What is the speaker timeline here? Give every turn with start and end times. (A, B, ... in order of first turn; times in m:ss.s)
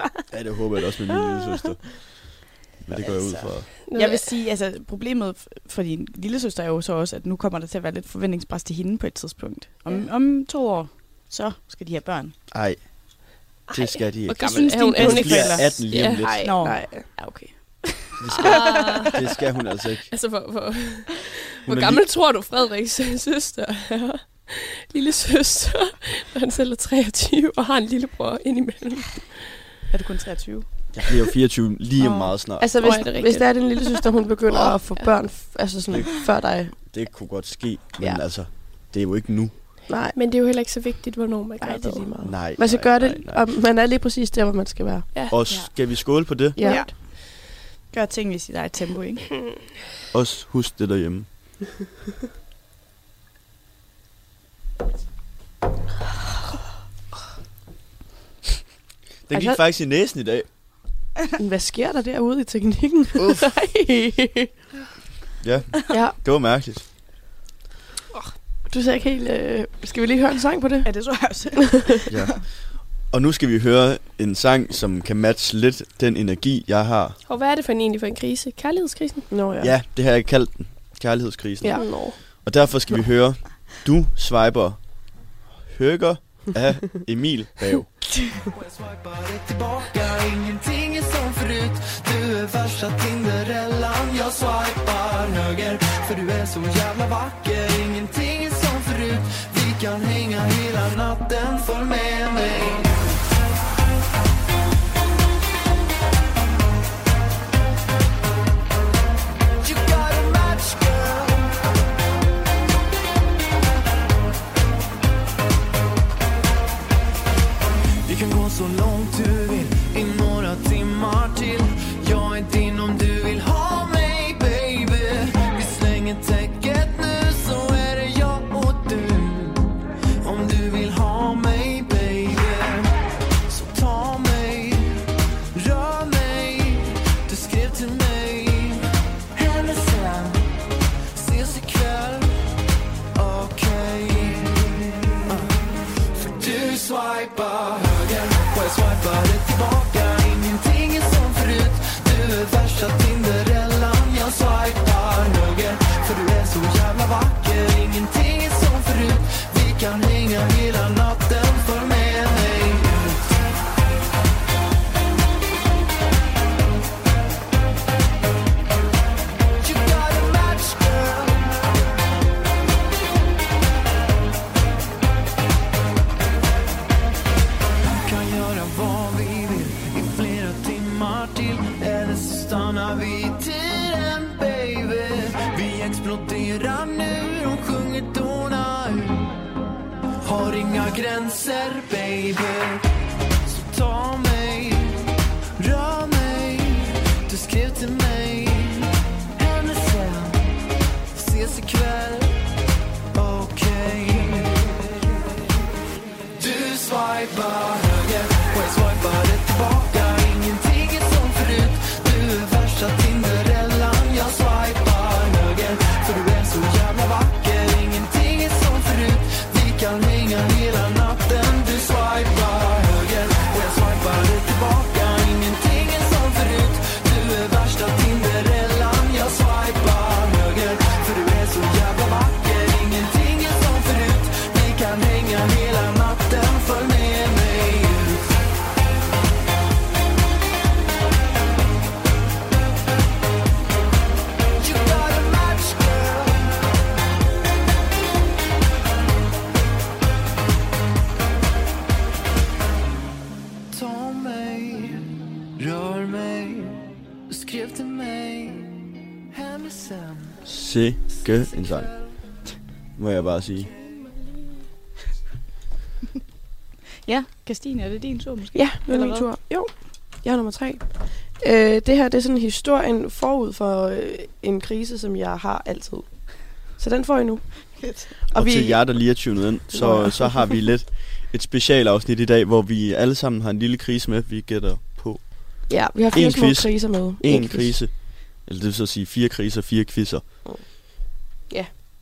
0:00.3-0:03.7 A
0:03.0-0:12.3 B
0:03.9-0:04.3 C
0:12.5-0:16.5 A
0:13.7-0:16.5 C
0:14.6-0:15.7 B
0:16.4-0:19.1 B
0:16.6-0:17.2 D
0:18.2-0:20.1 A
0:18.4-0:19.1 C
0:20.1-0:29.5 C
0:21.7-0:22.0 A
0:29.9-0:30.6 B
0:30.9-0:32.7 A
0:32.0-0:34.0 C
0:32.6-0:36.7 D
0:34.5-0:35.1 C
0:36.8-0:39.6 A
0:39.9-0:40.2 D
0:40.1-0:42.1 C
0:41.6-0:45.1 D
0:42.2-0:43.4 A
0:45.3-0:46.6 A
0:46.5-0:46.9 D
0:46.6-0:47.4 B
0:47.9-0:49.3 B
0:50.1-0:51.3 A
0:59.3-1:00.5 A
0:59.3-0:59.6 D
1:01.4-1:04.5 D
1:03.2-1:03.5 A
1:05.4-1:06.8 A
1:08.7-1:10.9 D
1:10.8-1:12.4 B
1:12.1-1:12.5 A
1:13.1-1:17.2 A
1:17.3-1:19.3 C
1:19.3-1:19.7 D
1:19.6-1:24.8 A
1:21.6-1:22.1 D
1:21.8-1:22.2 C
1:25.7-1:27.9 A
1:28.5-1:43.0 E
1:49.6-1:51.6 E
1:58.0-2:12.9 E
2:13.5-2:20.4 E
2:21.1-2:22.4 E
2:23.1-2:25.5 E
2:26.1-2:43.2 E
2:49.6-2:51.6 E
2:58.0-3:09.4 E
3:10.2-3:12.8 E
3:13.4-3:20.4 E
3:21.1-3:22.4 E
3:23.1-3:24.8 E
3:26.4-3:58.3 E
4:04.6-4:06.6 E
4:13.7-4:20.4 E
4:20.4-4:21.9 A
4:21.2-4:22.0 E
4:23.0-4:23.7 A
4:27.0-4:29.3 B
4:28.5-4:40.6 D
4:37.8-4:38.1 B
4:38.3-4:50.2 A
4:45.7-4:47.8 D
4:51.5-4:51.8 D